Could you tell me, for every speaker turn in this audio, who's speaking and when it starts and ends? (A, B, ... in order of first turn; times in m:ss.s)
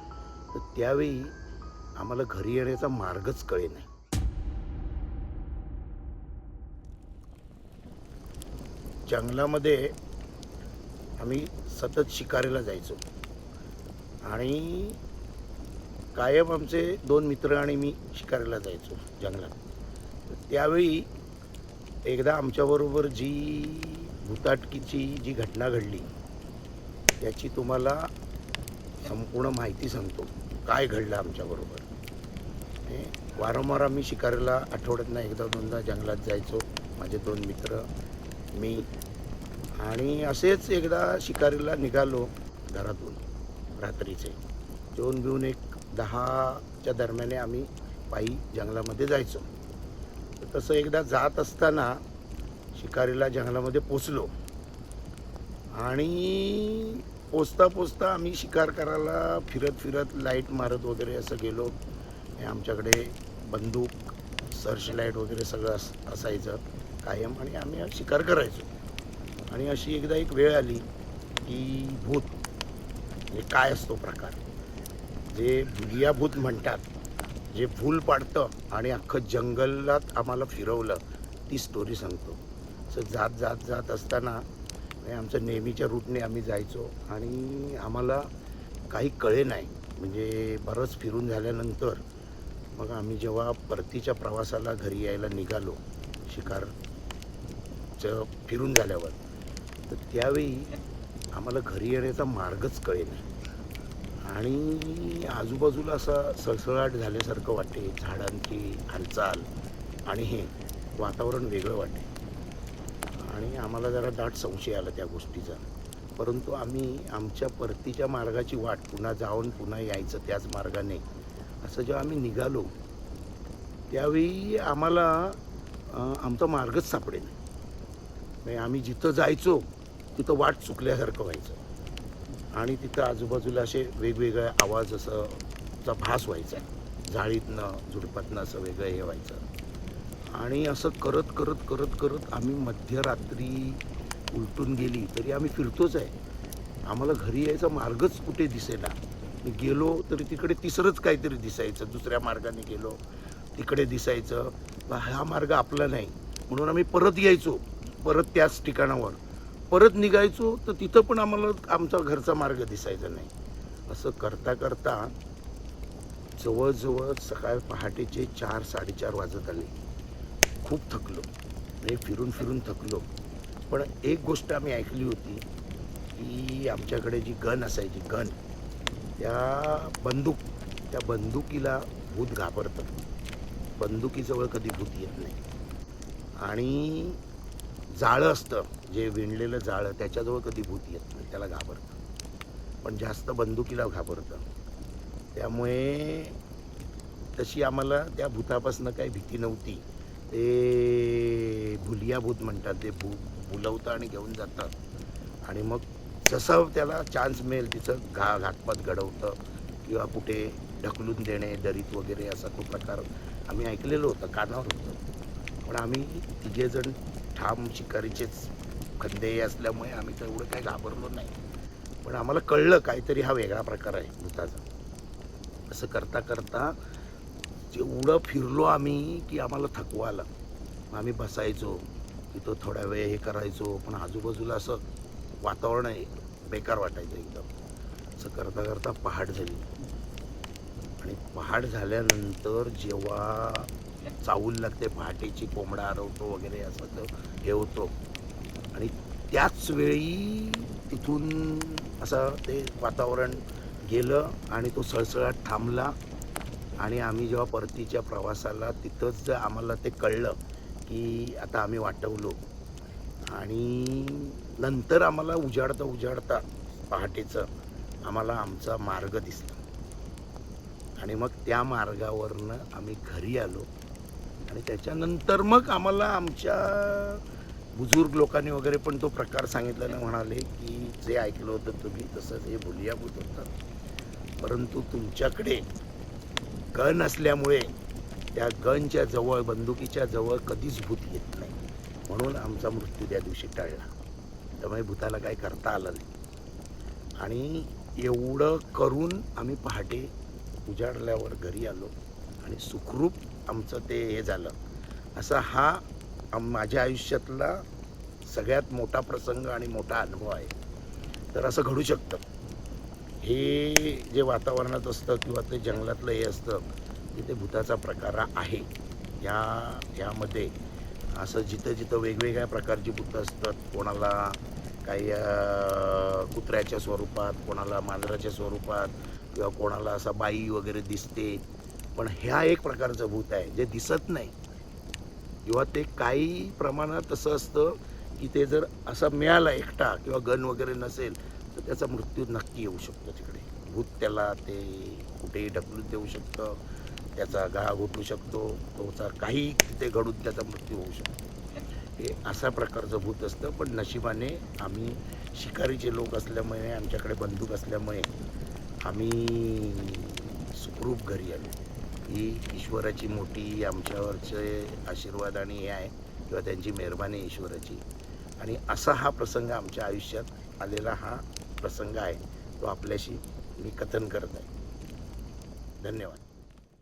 0:00.5-0:01.4 A
0:02.0-0:03.9 A
0:09.1-0:10.0 A
0:11.2-0:13.0 A
0:14.2-0:15.0 A
0:16.1-0:19.6 A
0:20.3-0:21.1 A
0:22.0-0:26.1 A
0:27.2-0:28.1 A
0:29.0-0:31.9 A
0:32.8-0:37.9 A
0:38.6-0:38.9 A
0:39.8-0:43.2 A
0:43.8-0:44.4 A
0:44.9-0:49.5 A
0:50.4-0:52.0 A
0:52.7-0:54.3 A
0:55.8-1:01.8 A
1:02.4-1:08.7 A
1:09.5-1:10.9 A
1:11.4-1:12.3 A
1:13.3-1:14.4 A
1:15.3-1:16.8 A
1:17.5-1:24.4 A
1:25.0-1:28.3 A
1:28.9-1:32.0 A
1:32.8-1:36.7 A
1:38.0-1:39.2 A
1:39.9-1:40.8 A
1:41.3-1:43.2 A
1:44.2-1:49.5 A
1:50.1-1:52.1 A
1:53.2-2:01.0 A
2:01.6-2:02.7 A
2:03.9-2:05.4 A
2:05.9-2:07.4 A
2:08.4-2:11.6 A
2:12.6-2:19.4 A
2:20.3-2:26.1 A
2:26.9-2:33.0 A
2:33.6-2:43.3 A
2:43.9-2:45.1 A
2:46.4-2:49.7 A
2:50.6-2:51.3 A
2:51.8-2:53.1 A
2:53.7-2:55.4 A
2:56.2-2:58.4 A
2:59.2-3:02.9 A
3:03.8-3:05.4 A
3:06.4-3:07.2 A
3:07.9-3:12.0 A
3:12.8-3:14.4 A
3:15.3-3:16.4 A
3:17.4-3:24.7 A
3:25.4-3:35.0 A
3:35.6-3:41.4 A
3:42.0-3:44.6 A
3:45.7-3:46.8 A
3:47.7-3:50.3 A
3:50.9-3:54.8 A
3:55.4-3:57.5 A
3:58.2-3:59.7 A
4:01.0-4:03.7 A
4:04.2-4:07.9 A
4:08.7-4:16.0 A
4:16.8-4:22.4 A
4:23.3-4:27.5 A
4:28.0-4:29.6 A
4:31.0-4:33.7 A
4:34.4-4:37.2 A
4:37.8-4:43.5 A
4:44.4-4:45.6 A
4:46.7-4:47.7 A
4:48.3-4:51.6 A
4:52.1-4:53.9 A
4:54.6-4:56.1 A
4:57.2-5:00.1 A
5:00.7-5:04.6 A
5:05.2-5:07.6 A
5:08.2-5:10.5 A
5:11.3-5:12.2 A
5:13.2-5:18.7 A
5:19.2-5:20.5 A
5:21.1-5:31.4 A
5:32.0-5:34.4 A
5:35.4-5:46.6 A
5:47.2-5:51.2 A
5:52.0-5:58.1 A
5:58.8-6:01.5 A
6:02.1-6:07.8 A
6:08.4-6:14.5 A
6:15.8-6:16.2 A